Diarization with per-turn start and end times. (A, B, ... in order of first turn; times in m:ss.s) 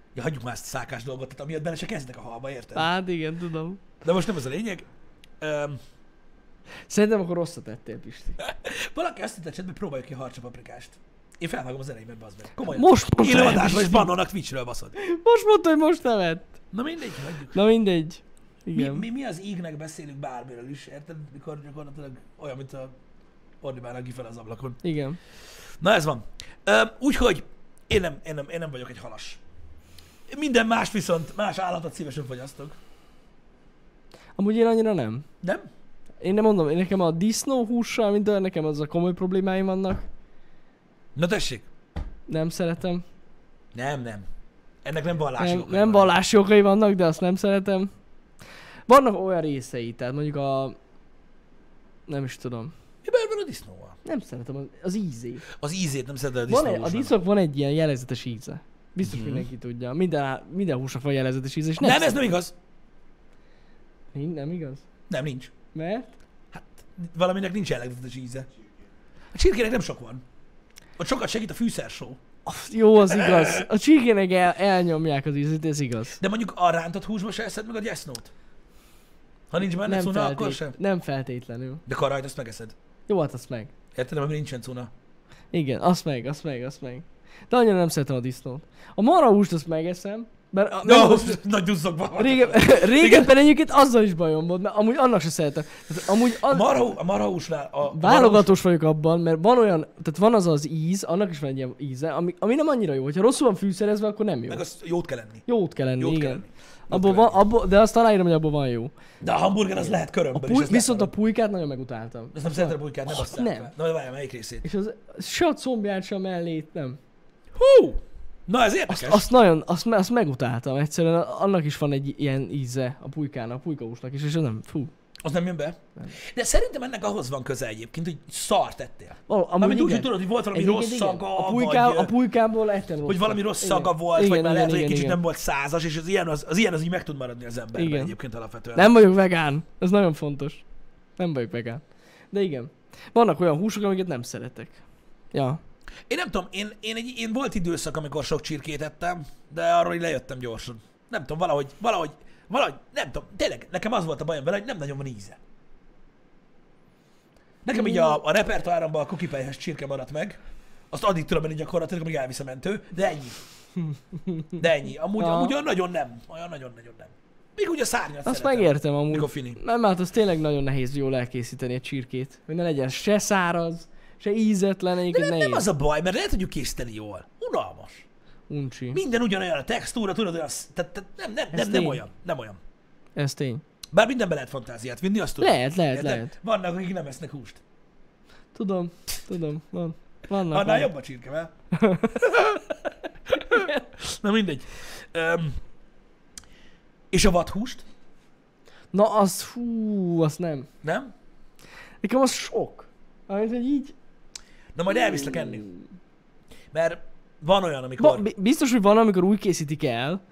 0:00.1-0:02.9 A
0:02.7-0:03.8 B
0:04.0-0:04.9 A
0:05.4-0:05.8 A
0:06.9-0:08.4 B
0:08.4-0:15.0 A
0:12.7-0:14.1 B
0:15.0-0:16.5 B
0:16.7-0:17.6 A
0:17.5-0:19.0 B
0:18.7-0:22.9 A
0:23.6-0:24.8 A
0:24.8-0:25.2 B
0:25.8-0:29.4 A
0:30.3-0:32.8 A
0:34.4-0:35.2 B
0:35.4-0:35.7 A
0:36.2-0:40.1 B
0:41.2-0:41.7 A
0:42.3-0:43.0 B
0:43.7-0:44.2 A
0:44.8-0:46.1 A
0:45.4-0:47.9 B
0:48.9-0:50.8 B
0:52.1-0:52.7 B
0:53.0-0:54.0 A
0:54.0-0:55.4 B
0:55.5-0:57.1 A
0:56.5-1:02.3 B
0:59.0-0:59.5 A
1:01.8-1:02.5 A
1:04.1-1:04.8 B
1:05.1-1:05.5 A
1:05.7-1:06.1 B
1:06.5-1:08.5 A
1:09.3-1:10.2 A
1:11.0-1:12.2 A
1:12.4-1:16.2 B
1:13.1-1:13.6 A
1:16.2-1:18.3 A
1:19.5-1:20.8 A
1:19.6-1:21.8 B
1:21.9-1:22.7 A
1:23.1-1:23.7 B
1:24.0-1:24.9 A
1:25.5-1:31.4 B
1:30.8-1:33.3 A
1:32.2-1:36.8 B
1:36.4-1:38.6 A
1:37.9-1:44.6 B
1:44.5-1:45.4 A
1:45.5-1:48.9 B
1:46.0-1:47.4 A
1:49.2-1:51.1 A
1:49.8-1:53.7 B
1:52.3-1:54.6 A
1:54.6-1:57.0 B
1:57.6-1:59.2 A
1:58.9-2:04.9 B
2:05.2-2:12.1 A
2:09.3-2:15.2 B
2:13.0-2:19.0 A
2:17.7-2:18.1 B
2:18.7-2:20.6 B
2:21.2-2:24.8 B
2:25.3-2:25.6 B
2:26.1-2:35.4 A
2:37.6-2:40.4 A
2:37.7-2:38.2 B
2:40.9-2:43.4 A
2:44.1-2:44.5 B
2:44.6-2:49.6 A
2:45.2-2:45.5 B
2:48.2-2:55.6 B
2:55.1-2:58.0 A
2:58.5-2:59.0 B
2:58.9-3:02.6 A
3:01.5-3:02.0 B
3:03.1-3:03.6 B
3:03.9-3:07.6 A
3:05.4-3:06.3 B
3:08.6-3:10.9 B
3:10.4-3:11.5 A
3:11.7-3:12.2 B
3:12.1-3:12.7 A
3:13.3-3:15.6 A
3:13.5-3:13.8 B
3:17.1-3:17.8 A
3:18.9-3:20.7 B
3:20.8-3:21.1 A
3:22.0-3:24.0 B
3:24.7-3:25.7 A
3:24.9-3:25.8 B
3:26.7-3:28.2 A
3:28.0-3:30.2 B